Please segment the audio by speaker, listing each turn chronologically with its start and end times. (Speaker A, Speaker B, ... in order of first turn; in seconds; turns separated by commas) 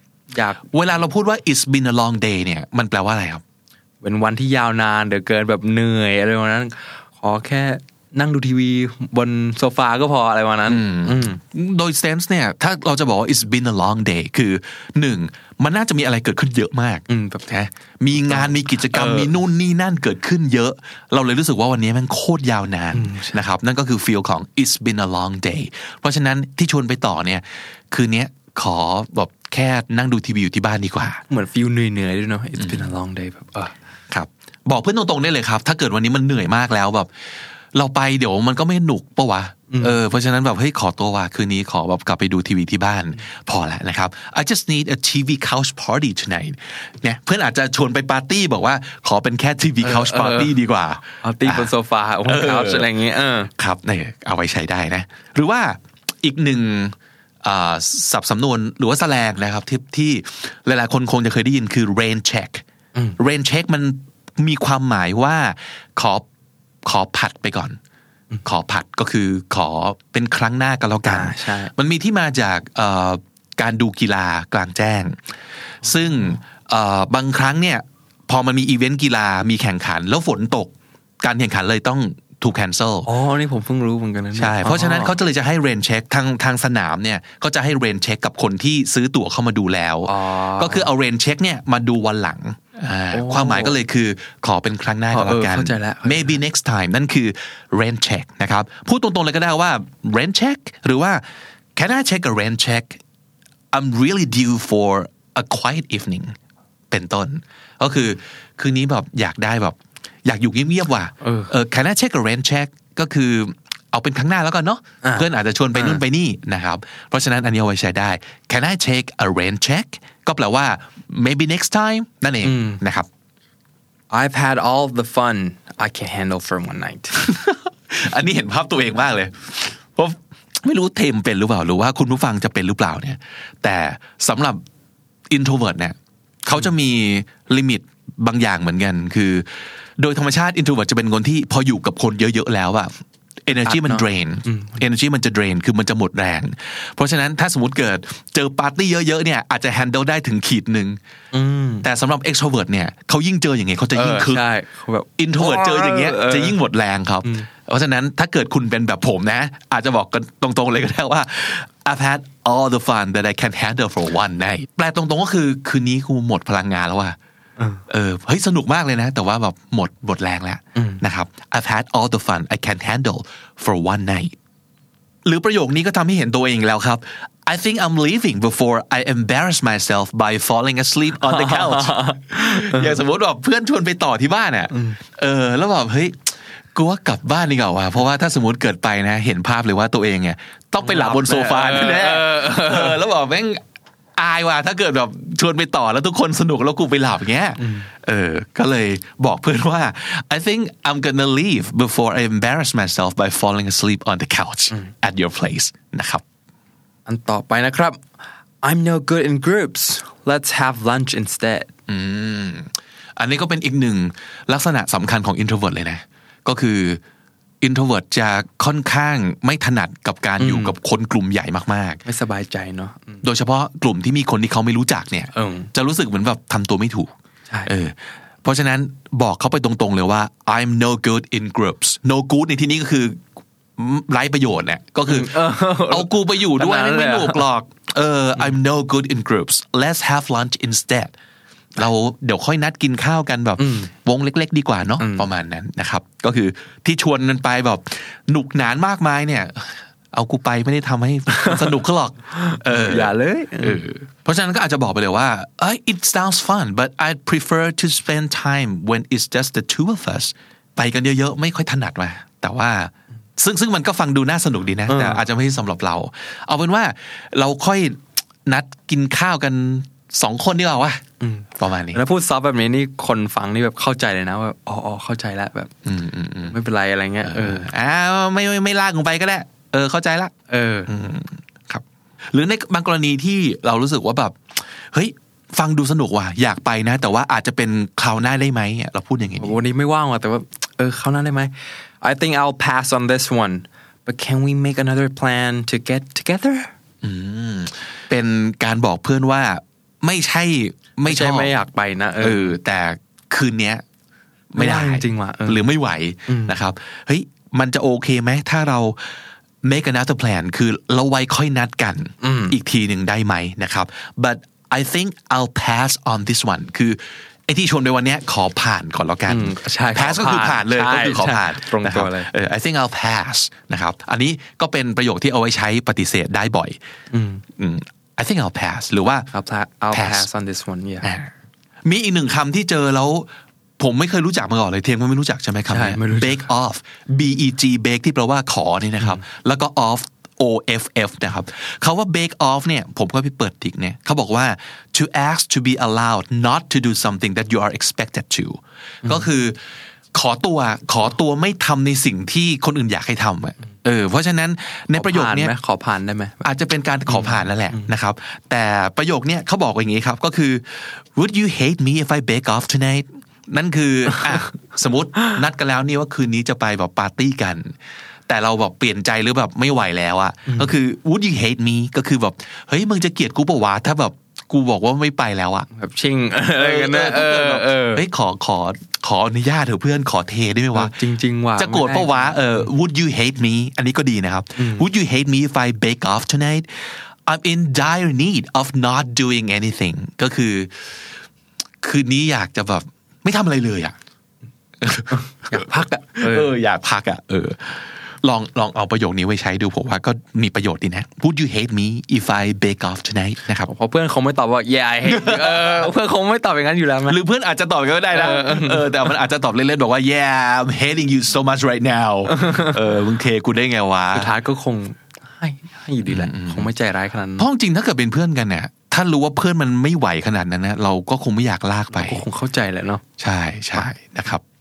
Speaker A: 0.3-0.6, Speaker B: 0.6-3.4, Speaker A: 4.0-11.4, Speaker B: 10.7-31.2, Speaker A: 17.1-17.6, Speaker A: 18.2-19.3, Speaker A: 22.9-23.4, Speaker A: 31.3-33.7, Speaker B: 32.6-32.9, Speaker B: 34.1-37.1, Speaker B: 37.7-51.7, Speaker A: 39.7-40.0, Speaker A: 49.8-50.5, Speaker A: 51.2-53.5, Speaker B: 52.2-52.9, Speaker B: 53.6-62.6, Speaker B: 63.2-66.2, Speaker B: 66.8-67.8, Speaker B: 68.4-75.2, Speaker A: 71.0-71.7, Speaker B: 75.8-83.1, Speaker A: 83.0-85.2, Speaker B: 84.3-101.2, Speaker A: 90.0-90.9, Speaker A: 93.1-93.8, Speaker A: 95.1-96.4, Speaker B: 101.8-103.0, Speaker B: 103.7-106.3, Speaker B: 106.9-123.1, Speaker A: 111.2-111.5, Speaker A: 115.0-116.0, Speaker A: 122.4-122.8, Speaker A: 124.1-127.2, Speaker B: 127.2-134.6, Speaker B: 135.3-142.9, Speaker B: 143.4-151.0, Speaker A: 143.6-144.8, Speaker A: 151.3-151.8, Speaker B: 151.8-154.4, Speaker A: 153.9-156.6, Speaker B: 155.2-167.2, Speaker B: 167.9-174.3, Speaker A: 170.8-171.0, Speaker B: 175.2-193.6, Speaker A: 181.2-183.0, Speaker A: 184.7-185.0, Speaker A: 190.8-193.0, Speaker B: 194.2-206.2, Speaker A: 197.6-197.9, Speaker A: 207.1-208.0, Speaker A: 208.6-211.7, Speaker B: 211.9-217.0, Speaker B: 217.6-222.0, Speaker A: 220.4-220.7, Speaker A: 222.0-223.2, Speaker B: 223.2-227.1, Speaker A: 225.3-225.7, Speaker B: 227.7-233.2, Speaker B: 233.8-241.1, Speaker A: 235.1-237.4, Speaker B: 241.8-271.0, Speaker A: 243.6-243.9, Speaker A: 245.0-245.2, Speaker A: 251.3-251.8, Speaker A: 252.3-253.8, Speaker A: 264.9-265.2, Speaker A: 271.2-275.7, Speaker B: 271.6-272.0, Speaker B: 275.8-276.6, Speaker A: 276.5-277.7, Speaker B: 277.2-280.3, Speaker A: 280.5-280.9, Speaker B: 280.9-289.6, Speaker A: 289.4-296.7, Speaker B: 297.0-301.5, Speaker A: 301.0-302.5, Speaker B: 302.2-303.8, Speaker B: 304.5-326.8, Speaker A: 304.6-305.6, Speaker A: 306.3-306.6, Speaker A: 312.2-312.6, Speaker A: 319.3-322.3, Speaker A: 327.1-327.4, Speaker B: 327.6-329.3, Speaker A: 329.3-331.1, Speaker B: 329.9-330.3, Speaker B: 331.0-331.3, Speaker B: 331.8-349.6, Speaker A: 335.7-336.5, Speaker B: 350.1-355.5, Speaker A: 354.9-356.4, Speaker B: 356.4-367.8, Speaker A: 357.1-357.9, Speaker B: 368.3-375.7, Speaker A: 370.5-370.7, Speaker A: 375.7-378.0, Speaker B: 376.5-381.0, Speaker A: 380.7-382.6, Speaker B: 381.6-390.9, Speaker A: 384.6-384.9, Speaker B: 391.8-393.9, Speaker B: 394.8-403.7, Speaker A: 395.1-396.5, Speaker A: 403.6-407.2, Speaker B: 405.0-405.9, Speaker B: 407.1-414.3, Speaker A: 408.1-408.9, Speaker A: 412.3-412.7, Speaker A: 414.1-417.4, Speaker B: 416.0-416.7, Speaker B: 417.4-422.2, Speaker A: 421.9-423.0, Speaker B: 423.2-424.4